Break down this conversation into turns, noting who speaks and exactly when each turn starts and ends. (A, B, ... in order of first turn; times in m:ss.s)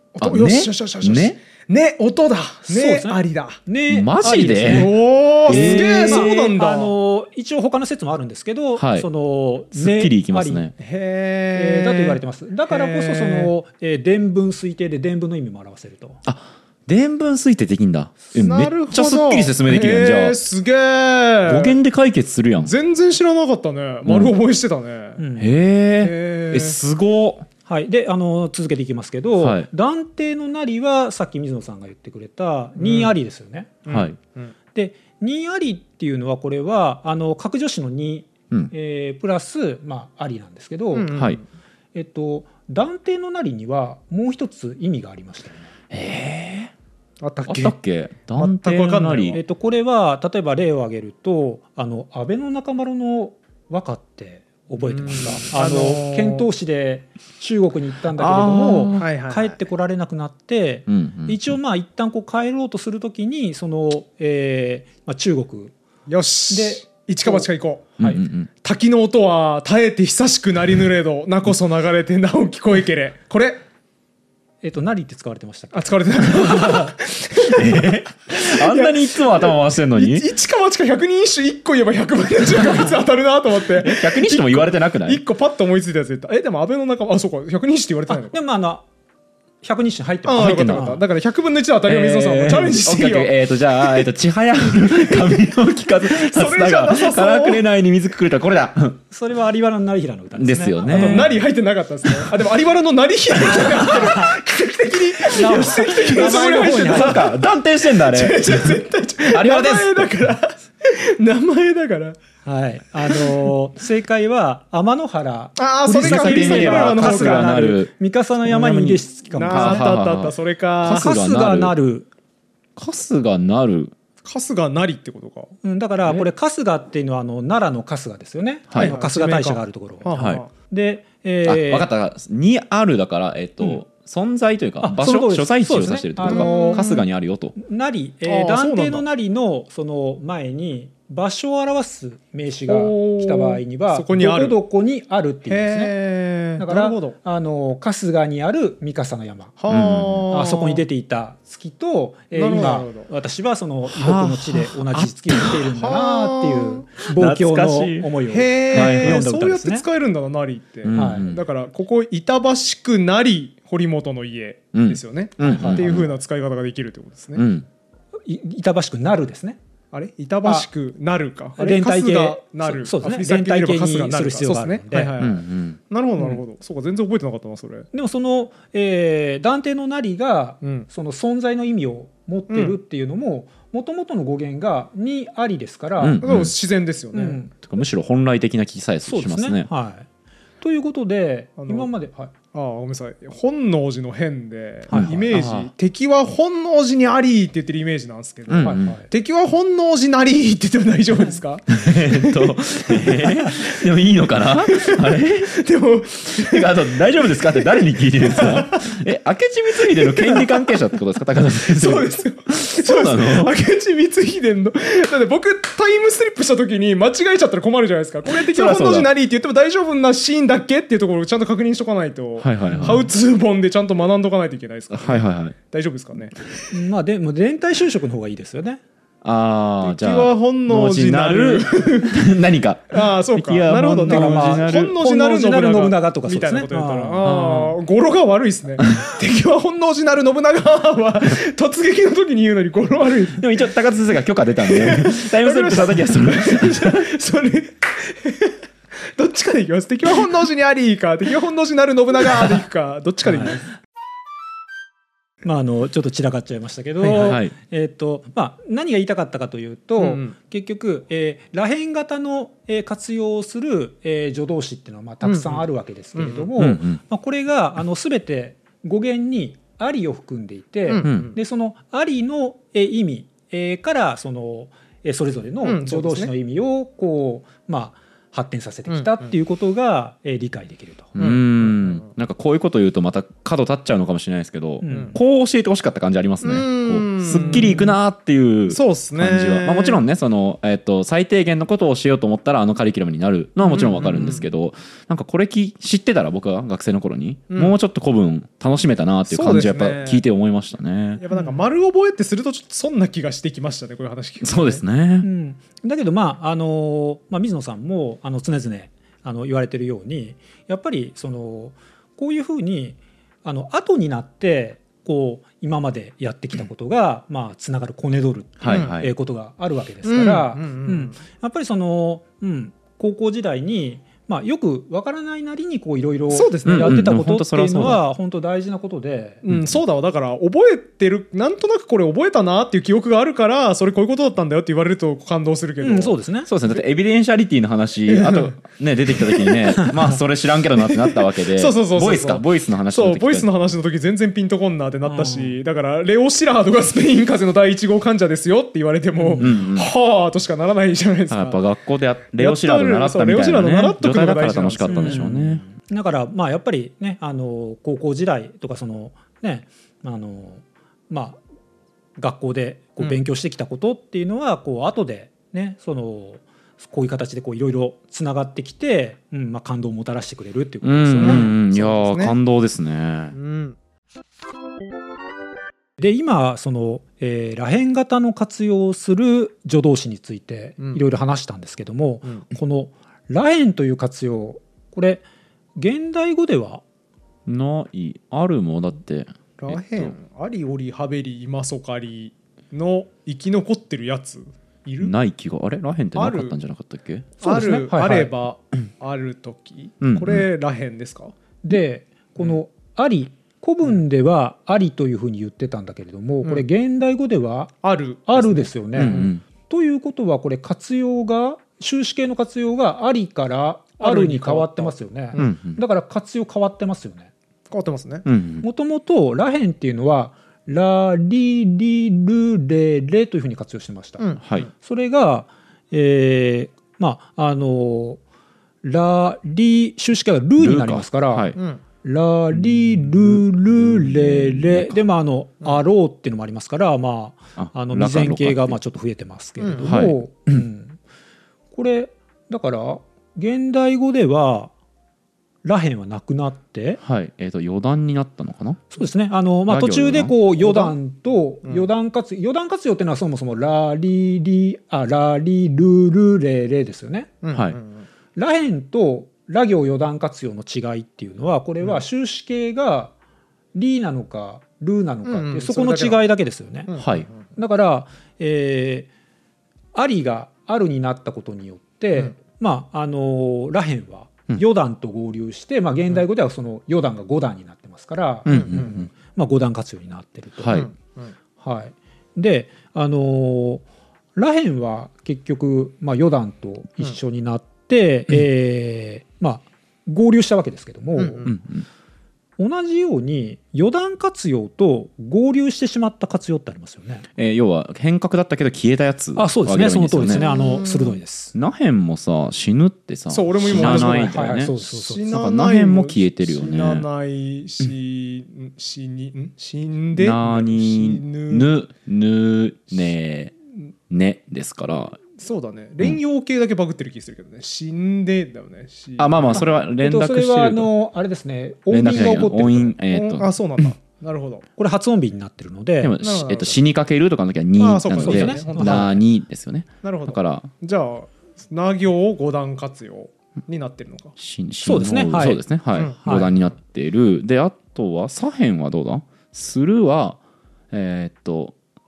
0:00.2-0:03.6 A
0:00.2-0:01.4 B
0:02.7-0:10.7 C
0:03.9-0:04.9 B
0:04.7-0:06.9 A
0:05.5-0:06.5 B
0:08.8-0:09.1 B
0:09.8-0:10.7 B
0:10.8-0:13.5 A
0:11.6-0:16.2 C
0:16.2-0:20.4 B
0:18.4-0:21.8 A
0:21.5-0:22.8 B
0:22.6-0:25.2 A
0:24.1-0:24.3 B
0:25.2-0:25.5 C
0:25.4-0:27.5 B
0:26.0-0:26.8 A
0:27.7-0:33.9 C
0:29.4-0:29.7 B
0:32.8-0:33.2 A
0:33.9-0:34.5 A
0:33.9-0:34.2 B
0:34.7-0:41.1 C
0:40.9-0:41.4 A
0:41.1-0:41.4 B
0:42.0-0:45.7 C
0:45.9-0:46.7 B
0:47.2-0:47.8 A
0:47.5-0:49.4 B
0:48.4-0:49.4 A
0:49.3-1:05.7 C
0:54.9-0:56.5 A
0:58.1-0:59.1 B
0:59.0-0:59.6 A
1:00.9-1:01.6 B
1:06.1-1:07.9 A
1:06.5-1:08.2 C
1:08.0-1:08.5 B
1:08.6-1:13.6 A
1:14.6-1:16.8 C
1:15.7-1:28.4 A
1:16.4-1:16.9 B
1:17.4-1:20.3 B
1:23.7-1:25.2 B
1:28.1-1:28.8 C
1:29.6-1:31.0 C
1:30.2-1:33.3 A
1:30.3-1:31.0 B
1:31.9-1:39.0 B
1:36.1-1:37.6 A
1:39.1-1:41.4 C
1:40.4-1:41.4 B
1:40.8-1:47.4 A
1:43.6-1:44.1 B
1:43.9-1:44.3 C
1:45.3-1:47.4 C
1:45.4-1:50.1 B
1:47.9-1:52.2 A
1:52.4-1:59.9 C
1:53.1-1:53.5 A
1:55.6-1:57.5 A
1:56.0-1:57.9 B
1:58.4-2:01.8 B
1:59.3-2:01.1 A
2:00.9-2:02.1 C
2:02.8-2:03.9 B
2:04.2-2:05.5 A
2:05.6-2:11.9 C
2:08.7-2:09.0 B
2:08.8-2:10.5 A
2:10.1-2:10.4 B
2:11.4-2:17.6 B
2:14.8-2:16.9 C
2:16.2-2:17.0 A
2:17.6-2:26.0 C
2:18.2-2:19.0 A
2:22.7-2:24.6 A
2:25.5-2:27.2 A
2:26.6-2:29.6 C
2:29.6-2:30.8 A
2:29.7-2:30.2 B
2:30.3-2:39.8 C
2:32.3-2:33.1 A
2:33.9-2:35.6 B
2:35.6-2:36.9 A
2:37.1-2:38.1 B
2:38.3-2:47.5 A
2:38.7-2:39.2 B
2:40.8-2:41.4 B
2:40.9-2:41.3 C
2:44.7-2:46.1 B
2:45.4-2:45.9 C
2:47.4-2:47.7 B
2:48.2-2:49.6 C
2:49.9-2:57.9 A
2:51.6-2:55.1 C
2:55.2-2:55.8 B
2:57.9-3:06.2 C
3:02.5-3:02.8 A
3:06.0-3:06.5 B
3:06.2-3:07.4 A
3:07.1-3:07.6 C
3:07.6-3:09.7 B
3:09.0-3:10.1 C
3:10.6-3:12.3 C
3:11.6-3:11.9 A
3:12.5-3:23.6 A
3:14.9-3:15.7 B
3:14.9-3:15.2 C
3:18.5-3:19.0 B
3:18.6-3:19.1 C
3:21.7-3:25.6 B
3:24.7-3:28.8 A
3:26.3-3:33.5 B
3:29.9-3:30.8 A
3:31.7-3:46.4 A
3:38.3-3:39.1 B
3:42.4-3:43.1 B
3:44.9-3:45.6 B
3:46.7-3:48.8 C
3:49.2-3:55.0 B
3:49.8-3:52.3 A
3:52.9-4:03.4 A
3:54.1-3:57.3 C
3:57.2-3:57.8 B
4:03.4-4:07.1 B
4:04.7-4:08.6 A
4:09.1-4:13.6 A
4:13.3-4:13.6 C
4:15.4-4:41.2 C
4:17.0-4:17.3 A
4:17.1-4:17.5 B
4:20.0-4:20.4 A
4:25.2-4:25.6 A
4:26.2-4:26.5 A
4:26.6-4:27.0 B
4:30.9-4:31.4 A
4:31.0-4:31.3 B
4:35.6-4:36.3 A
4:38.9-4:39.2 A
4:41.2-5:01.2 B
4:41.2-4:42.1 A
4:44.8-4:45.2 C
4:44.9-4:45.2 A
4:46.4-4:47.9 A
4:48.7-4:50.0 A
4:53.6-4:54.5 A
4:57.5-4:57.8 A
4:59.3-5:00.2 A
5:01.2-5:04.8 A
5:04.4-5:05.3 B
5:05.2-5:29.4 C
5:18.6-5:19.1 B
5:18.7-5:19.0 A
5:20.0-5:21.2 A
5:26.3-5:27.0 A
5:26.7-5:28.0 B
5:29.4-5:36.2 A
5:29.5-5:29.8 B
5:35.8-5:36.5 C
5:36.5-5:43.5 B
5:38.1-5:38.6 A
5:40.9-5:51.6 A
5:45.0-5:45.6 C
5:49.2-5:49.5 C
5:49.4-5:49.9 B
5:51.3-5:55.6 B
5:52.4-5:55.2 A
5:54.9-6:01.4 C
6:02.2-6:11.5 C
6:10.8-6:13.4 B
6:11.2-6:12.4 A
6:13.3-6:13.8 A
6:16.0-6:25.2 C
6:25.8-6:26.8 C
6:27.5-6:30.2 B
6:29.6-6:35.2 A
6:35.0-6:37.3 B
6:36.2-6:36.6 A
6:37.4-6:41.3 A
6:37.4-6:38.3 C
6:40.0-6:40.5 B
6:41.6-6:57.3 C
6:47.8-6:49.3 A
6:49.0-6:49.4 B
6:54.0-6:55.5 A
6:55.4-6:55.8 B
6:57.7-6:58.3 A
6:58.2-6:58.7 B
6:58.6-7:08.2 C
7:04.2-7:04.7 A
7:04.4-7:04.7 B
7:08.8-7:21.0 C
7:10.6-7:11.6 B
7:11.6-7:11.8 A
7:12.6-7:15.0 B
7:17.6-7:18.8 B
7:19.6-7:19.9 A
7:19.8-7:20.6 B
7:21.7-7:24.7 C
7:25.6-7:27.0 C
7:27.0-7:28.8 B
7:28.9-7:37.4 C
7:29.7-7:30.9 B
7:37.4-7:38.1 A
7:37.5-7:37.8 B
7:38.4-7:43.1 C
7:43.8-7:46.9 C
7:45.3-7:46.3 A
7:46.9-7:47.4 A
7:47.0-7:47.3 B
7:47.6-7:49.1 C
7:49.9-8:00.9 C
7:58.5-7:59.1 B
7:58.5-7:58.9 A
8:00.6-8:00.9 B
8:00.7-8:01.3 A
8:01.6-8:11.5 C
8:11.2-8:11.5 A
8:11.4-8:11.9 B
8:12.6-8:17.3 C
8:17.4-8:20.8 B
8:19.4-8:21.5 C
8:20.4-8:21.1 A
8:21.5-8:27.0 B
8:23.3-8:31.7 A
8:23.6-8:25.3 C
8:30.2-8:33.6 B
8:34.1-8:35.2 B
8:35.4-8:39.6 A
8:39.2-8:40.9 B
8:40.0-8:43.0 C
8:41.9-8:43.8 B
8:43.1-8:44.6 A
8:44.8-8:46.2 C
8:46.0-8:50.7 B
8:46.2-8:46.8 A
8:47.8-8:49.2 A
8:48.2-8:49.2 C
8:50.0-8:54.4 A
8:54.4-9:00.4 B
8:54.8-8:55.6 C
8:56.2-8:56.5 C
9:00.9-9:01.8 B